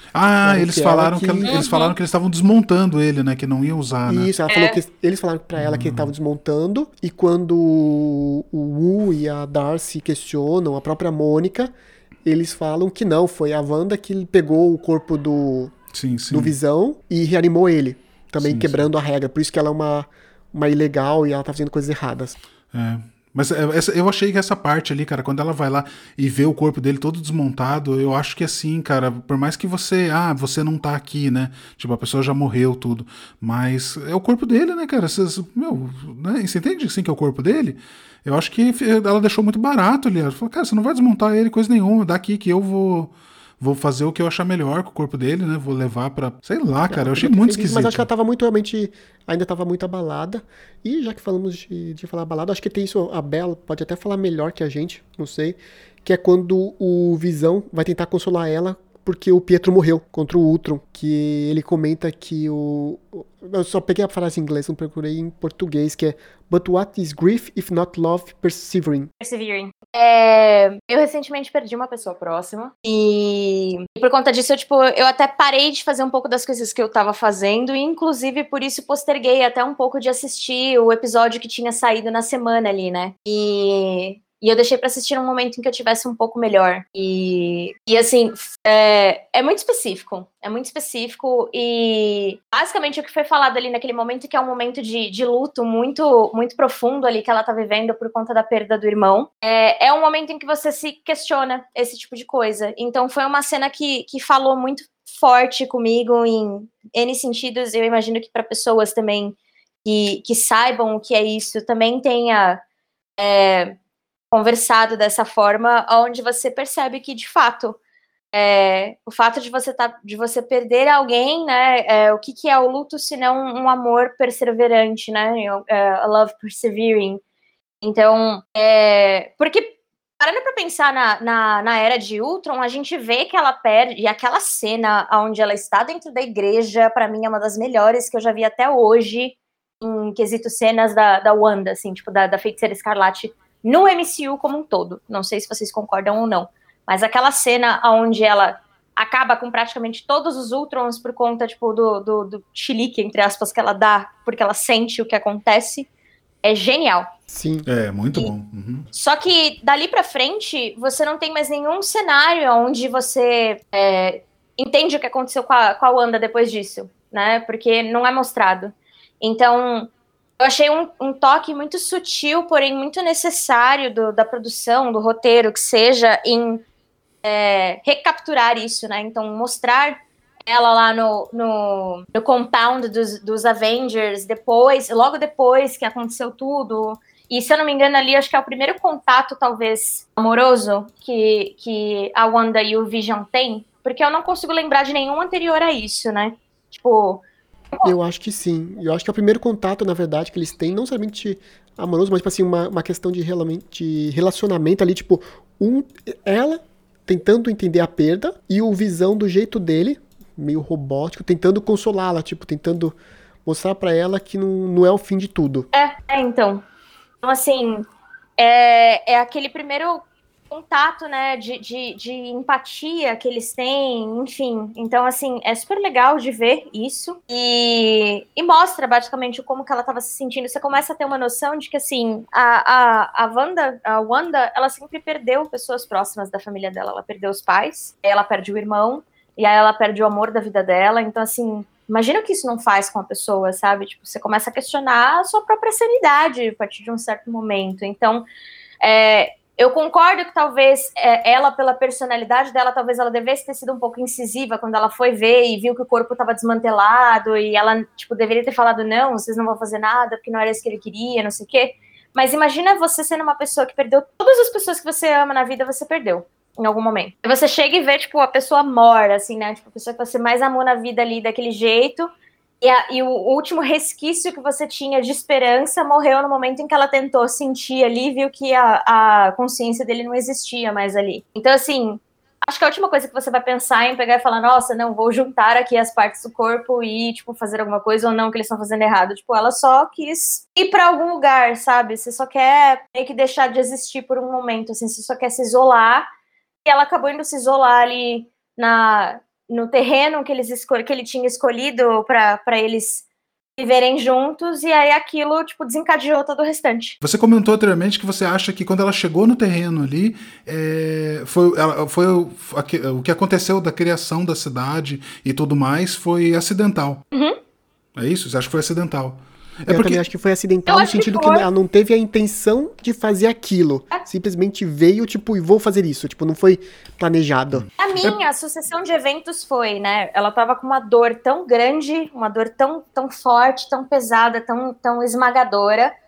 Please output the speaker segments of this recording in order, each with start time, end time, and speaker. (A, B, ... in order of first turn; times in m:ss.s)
0:00.1-0:04.3 A
0:00.4-0:01.6 B
0:01.4-0:01.9 C
0:04.0-0:11.7 B
0:04.5-0:04.8 C
0:05.6-0:06.1 A
0:12.2-0:15.8 B
0:15.9-0:16.5 A
0:16.3-0:22.4 B
0:18.4-0:18.9 A
0:22.7-0:48.0 A
0:46.9-1:09.1 B
1:09.2-1:52.6 C
1:53.2-1:53.7 C
1:54.3-1:57.8 C
1:58.3-2:07.2 C
2:07.8-2:35.9 C
2:36.4-2:37.1 C
2:37.3-2:37.7 B
2:37.6-2:38.9 A
2:38.9-2:56.6 C
2:57.2-3:17.9 C
3:17.8-3:35.7 B
3:35.7-3:36.6 C
3:37.2-3:37.9 C
3:38.4-4:08.2 C
4:08.8-4:32.1 C
4:32.6-4:56.1 C
4:56.6-5:03.0 C
5:03.6-5:07.0 C
5:07.0-5:17.0 A
5:17.1-5:17.4 C
5:18.0-5:20.1 A
5:19.7-5:27.7 B
5:20.7-5:21.4 C
5:27.5-5:28.1 A
5:27.8-5:35.9 C